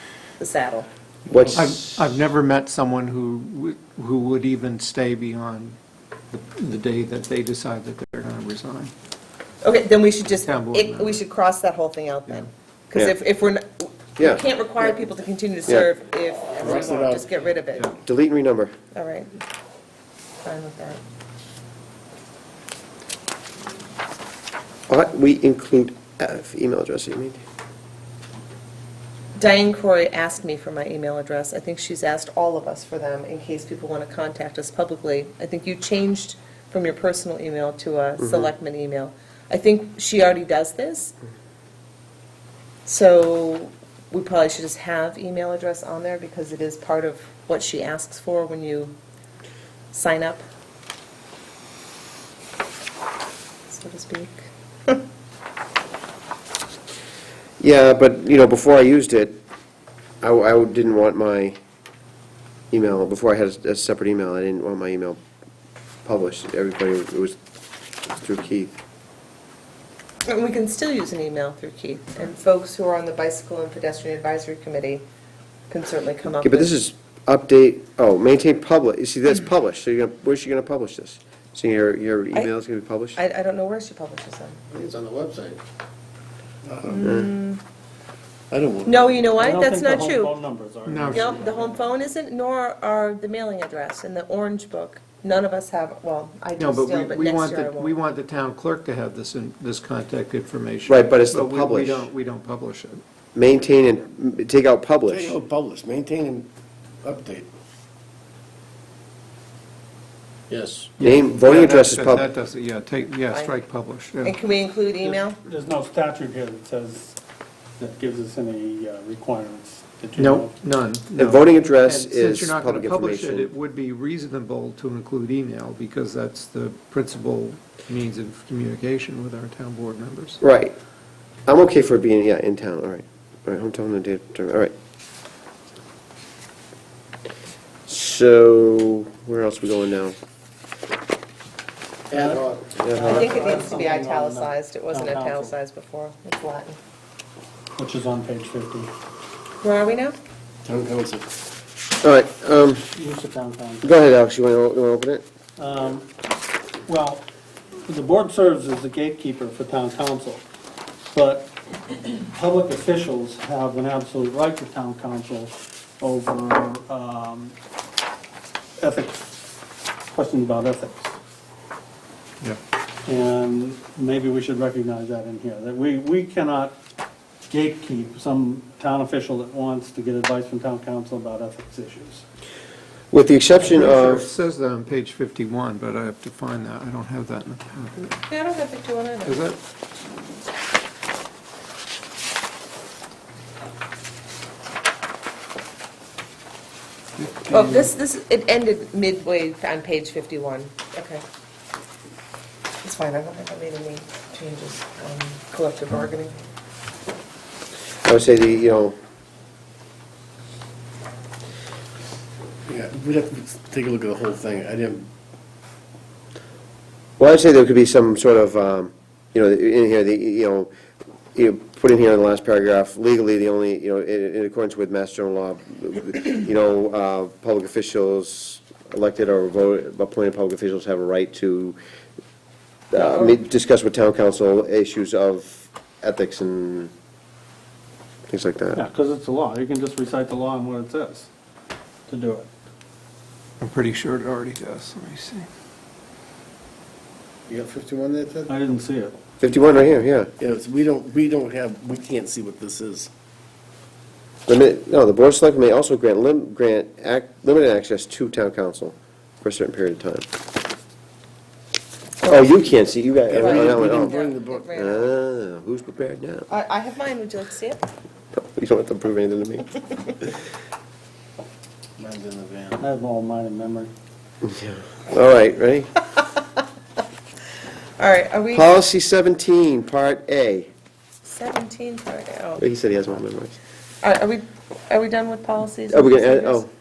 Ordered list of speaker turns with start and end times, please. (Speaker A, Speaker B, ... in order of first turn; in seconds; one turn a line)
Speaker A: 0.4-0.9
Speaker B: 1.3-1.9
Speaker C: 1.6-5.8
Speaker C: 6.3-8.9
Speaker A: 9.6-17.9
Speaker C: 10.5-11.2
Speaker D: 16.6-17.4
Speaker B: 18.0-18.7
Speaker A: 18.9-19.4
Speaker A: 20.4-21.0
Speaker B: 24.9-27.4
Speaker A: 29.4-41.1
Speaker B: 38.2-38.5
Speaker A: 42.9-49.0
Speaker A: 49.9-50.4
Speaker A: 53.7-55.0
Speaker B: 57.6-59.4
Speaker B: 60.2-61.6
Speaker B: 62.7-65.2
Speaker B: 66.0-67.4
Speaker B: 68.1-68.7
Speaker A: 70.3-75.0
Speaker A: 75.7-76.7
Speaker B: 76.4-83.2
Speaker A: 83.2-84.7
Speaker D: 86.7-87.0
Speaker A: 86.9-87.6
Speaker D: 88.5-89.3
Speaker A: 88.8-90.3
Speaker E: 89.4-91.9
Speaker C: 90.9-91.3
Speaker A: 91.1-98.0
Speaker C: 96.6-103.0
Speaker B: 100.9-102.1
Speaker B: 103.3-105.4
Speaker D: 105.1-106.5
Speaker D: 107.0-107.5
Speaker D: 110.5-110.9
Speaker C: 111.0-114.4
Speaker B: 111.0-112.3
Speaker A: 114.2-115.4
Speaker E: 115.0-117.2
Speaker E: 117.8-120.5
Speaker C: 120.2-130.4
Speaker B: 121.2-123.5
Speaker B: 130.4-130.8
Speaker B: 131.5-134.7
Speaker B: 137.9-140.2
Speaker D: 142.1-142.7
Speaker E: 142.2-145.6
Speaker B: 142.8-143.1
Speaker A: 143.0-146.8
Speaker E: 147.8-148.9
Speaker A: 149.6-150.2
Speaker D: 150.7-151.3
Speaker B: 152.0-152.8
Speaker E: 152.5-153.9
Speaker B: 153.8-155.2
Speaker E: 155.6-156.1
Speaker E: 156.9-157.2
Speaker E: 157.9-160.4
Speaker E: 161.1-167.5
Speaker E: 168.8-169.3
Speaker E: 170.1-171.1
Speaker E: 173.0-176.8
Speaker E: 177.5-182.2
Speaker B: 183.1-184.2
Speaker C: 183.6-188.2
Speaker A: 188.3-189.4
Speaker C: 189.2-189.6
Speaker C: 197.2-197.9
Speaker A: 197.5-201.2
Speaker A: 202.8-206.4
Speaker B: 208.1-208.9
Speaker D: 212.7-215.1
Speaker B: 217.2-220.7
Speaker B: 221.3-231.8
Speaker B: 232.9-236.9
Speaker A: 233.0-233.3
Speaker B: 238.3-238.8
Speaker E: 238.7-241.3
Speaker E: 242.1-242.5
Speaker C: 243.6-245.5
Speaker E: 248.5-249.2
Speaker B: 249.4-250.3
Speaker D: 250.4-253.1
Speaker B: 254.5-260.3
Speaker B: 262.2-266.5
Speaker D: 263.3-264.7
Speaker A: 263.3-265.1
Speaker A: 266.5-267.9
Speaker B: 268.3-270.4
Speaker D: 272.0-272.8
Speaker E: 272.8-273.9
Speaker B: 274.4-275.9
Speaker A: 278.0-278.8
Speaker B: 278.5-280.7
Speaker A: 281.2-282.6
Speaker B: 282.6-283.6
Speaker A: 284.0-286.6
Speaker B: 285.9-286.7